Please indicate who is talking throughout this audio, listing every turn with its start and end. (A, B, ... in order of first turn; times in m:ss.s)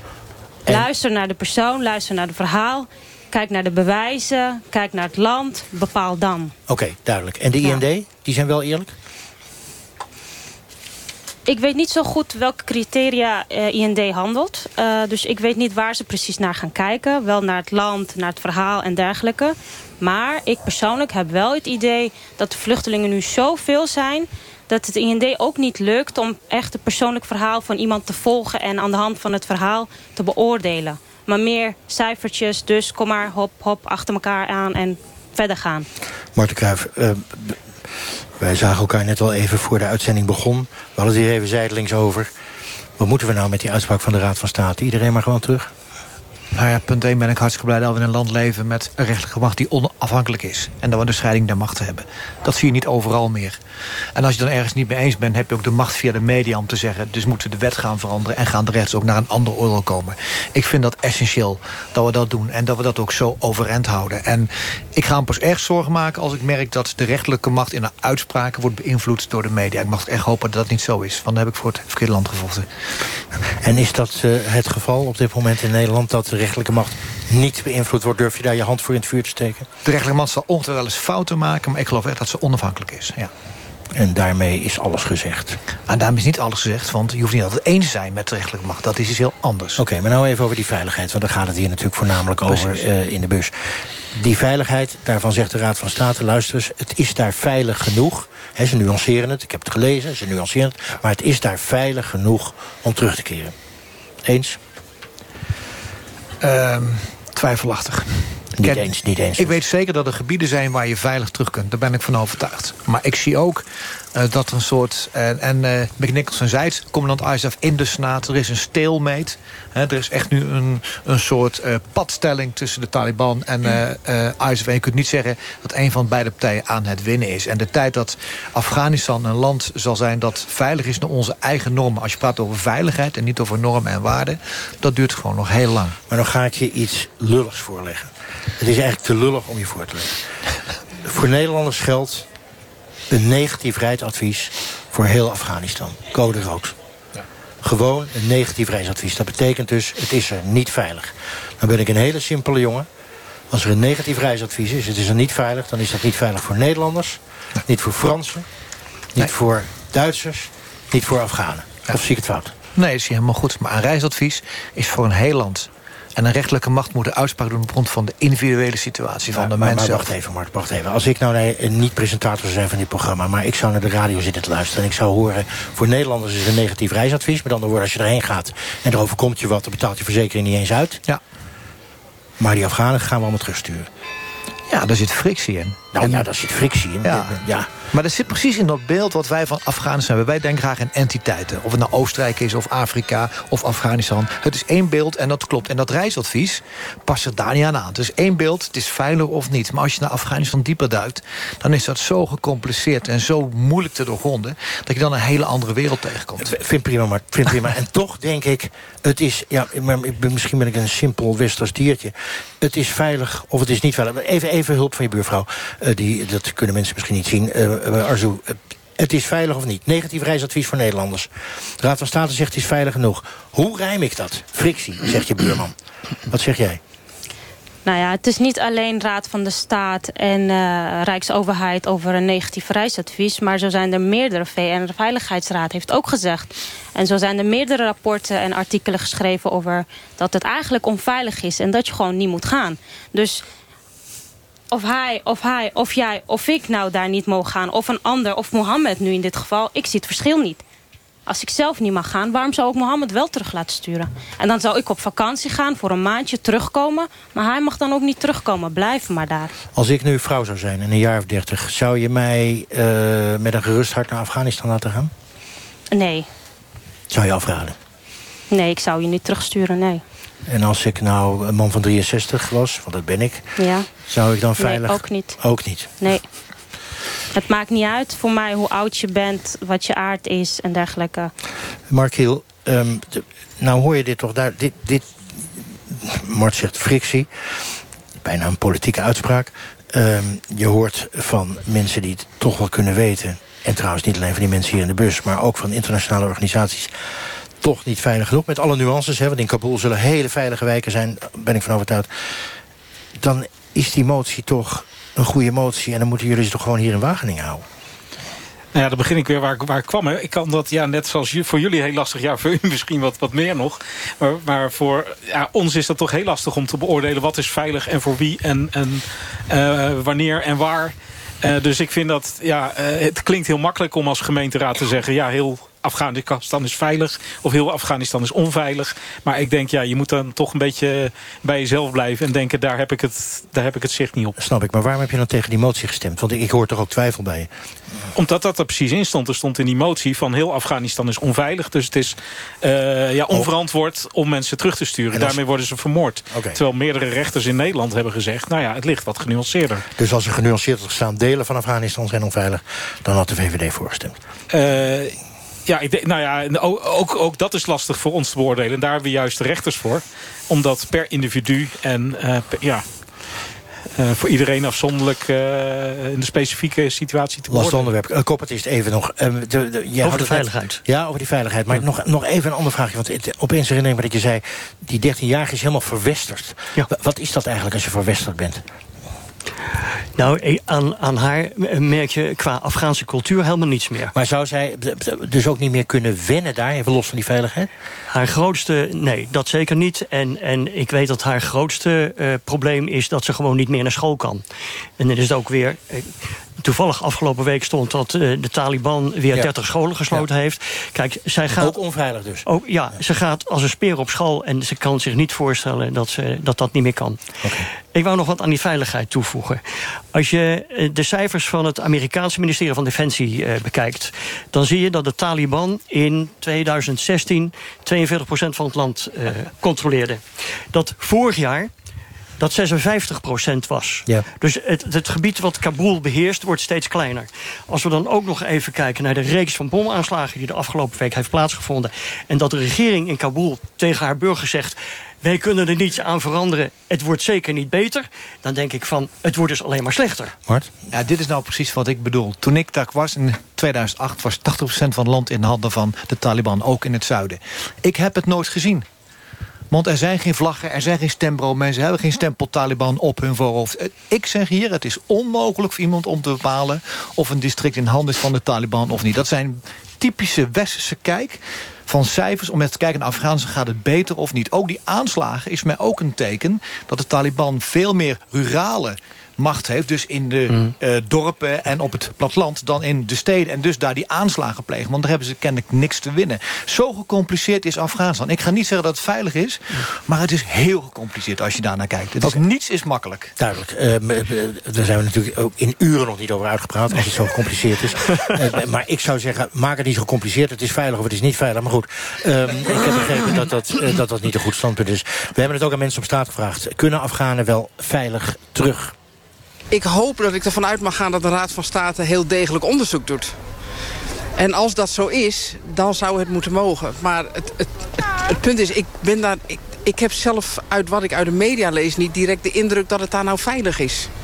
0:00.7-0:06.5 A
0:06.7-0:08.9 B
0:11.5-0:35.8 A
0:36.3-0:37.6 B
0:38.4-0:42.3 B
0:43.0-0:45.7 B
0:46.5-0:53.6 C
0:54.1-1:12.7 C
1:13.5-1:19.7 B
1:19.8-1:23.3 C
1:23.9-1:25.6 B
1:25.9-1:29.8 C
1:29.8-1:33.5 B
1:32.5-1:32.8 C
1:34.1-1:43.5 B
1:44.2-1:44.6 B
1:46.4-1:53.6 C
1:48.6-1:49.6 B
1:54.1-2:16.0 C
2:16.1-2:20.2 B
2:21.0-2:22.3 B
2:23.1-2:26.7 B
2:27.6-2:32.9 B
2:33.5-2:38.4 B
2:39.1-2:42.5 B
2:42.8-2:50.0 C
2:49.3-3:01.0 B
3:02.4-3:03.9 B
3:04.7-3:06.3 C
3:05.9-3:07.7 B
3:07.0-3:26.5 C
3:26.4-3:45.7 B
3:46.3-3:46.8 B
3:47.8-4:03.4 A
4:04.7-4:10.6 A
4:11.3-4:19.5 A
4:19.7-4:25.1 B
4:25.9-4:26.3 A
4:27.1-4:27.8 B
4:28.5-4:30.0 A
4:30.5-4:33.5 B
4:33.6-4:33.9 A
4:34.1-4:35.9 B
4:34.6-4:35.4 A
4:37.3-4:41.3 A
4:41.9-4:47.3 B
4:48.2-4:56.9 B
4:57.6-5:02.1 B
5:03.2-5:07.6 B
5:08.7-5:34.4 D
5:34.4-5:37.5 B
5:38.1-5:49.8 D
5:45.1-5:45.4 B
5:46.3-5:46.6 B
5:50.0-5:54.2 B
5:54.5-5:55.2 D
5:55.7-6:03.0 D
6:04.0-6:07.9 D
6:07.5-6:18.6 B
6:10.0-6:10.8 E
6:20.2-6:24.1 E
6:24.1-6:27.7 B
6:28.1-6:34.4 E
6:35.0-6:41.8 E
6:41.5-6:42.4 B
6:42.4-6:49.6 E
6:47.4-6:47.7 B
6:50.1-7:00.2 E
7:00.7-7:01.7 E
7:02.4-7:20.3 E
7:20.4-7:20.7 B
7:20.9-7:28.8 C
7:29.7-8:03.3 C
8:03.4-8:18.9 B
8:19.7-8:23.4 F
8:24.4-8:34.1 F